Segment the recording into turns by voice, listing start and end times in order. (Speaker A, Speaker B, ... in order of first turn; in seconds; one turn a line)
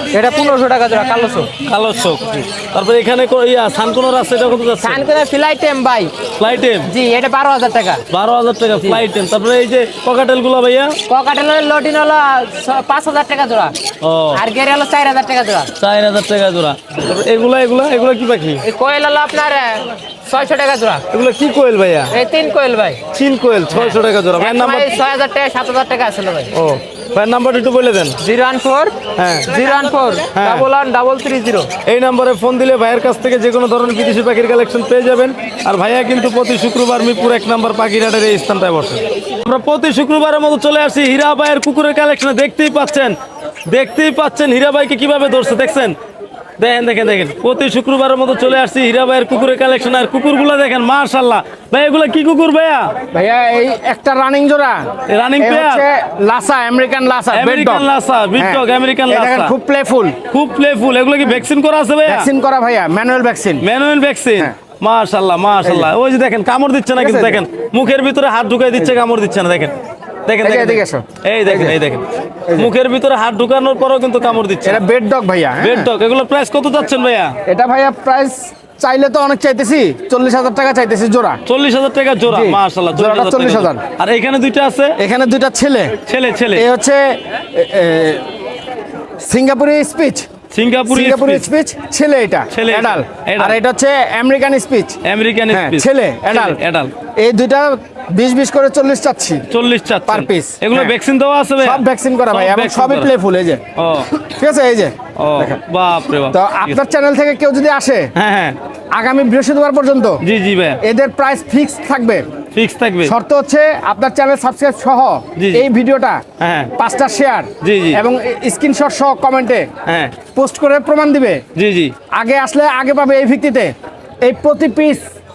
Speaker A: 0.1-1.5
Speaker B: 1.6-5.1
Speaker A: 4.8-6.2
Speaker B: 6.4-6.9
Speaker A: 6.8-8.0
Speaker B: 8.1-10.9
Speaker A: 11.1-13.7
Speaker B: 14.0-14.4
Speaker A: 14.3-15.7
Speaker B: 15.8-18.6
Speaker A: 18.6-21.0
Speaker B: 21.1-22.1
Speaker A: 22.1-23.0
Speaker B: 23.1-25.0
Speaker A: 23.7-26.5
Speaker B: 26.5-28.2
Speaker A: 28.2-28.9
Speaker B: 29.2-29.6
Speaker A: 29.5-31.7
Speaker B: 30.3-30.7
Speaker B: 31.9-43.1
Speaker B: 43.7-45.9
Speaker B: 46.6-52.9
Speaker C: 53.1-54.9
Speaker B: 55.1-55.9
Speaker C: 55.4-57.8
Speaker B: 57.3-59.5
Speaker C: 59.1-60.1
Speaker B: 60.3-62.3
Speaker C: 62.2-63.6
Speaker B: 63.6-69.8
Speaker C: 67.0-67.3
Speaker B: 70.3-74.8
Speaker C: 70.4-71.0
Speaker C: 74.7-75.9
Speaker B: 75.6-77.3
Speaker C: 77.5-81.3
Speaker B: 81.5-85.0
Speaker C: 82.3-83.7
Speaker C: 85.0-85.9
Speaker B: 86.1-86.7
Speaker C: 86.6-88.2
Speaker C: 89.2-90.2
Speaker B: 90.5-91.5
Speaker C: 90.9-94.9
Speaker B: 92.5-93.6
Speaker B: 95.0-96.9
Speaker C: 95.5-96.6
Speaker C: 97.2-99.4
Speaker B: 99.5-103.1
Speaker C: 100.1-100.6
Speaker C: 101.6-103.6
Speaker B: 103.8-104.1
Speaker C: 104.3-104.9
Speaker B: 105.2-106.8
Speaker C: 106.3-108.0
Speaker B: 108.2-108.6
Speaker C: 108.9-110.2
Speaker B: 110.2-110.8
Speaker C: 110.8-112.2
Speaker B: 112.5-113.1
Speaker C: 113.1-116.2
Speaker B: 115.3-115.7
Speaker B: 116.4-116.7
Speaker C: 116.8-119.6
Speaker B: 117.6-118.0
Speaker B: 119.9-120.2
Speaker C: 120.3-121.4
Speaker B: 121.5-121.9
Speaker C: 122.1-125.0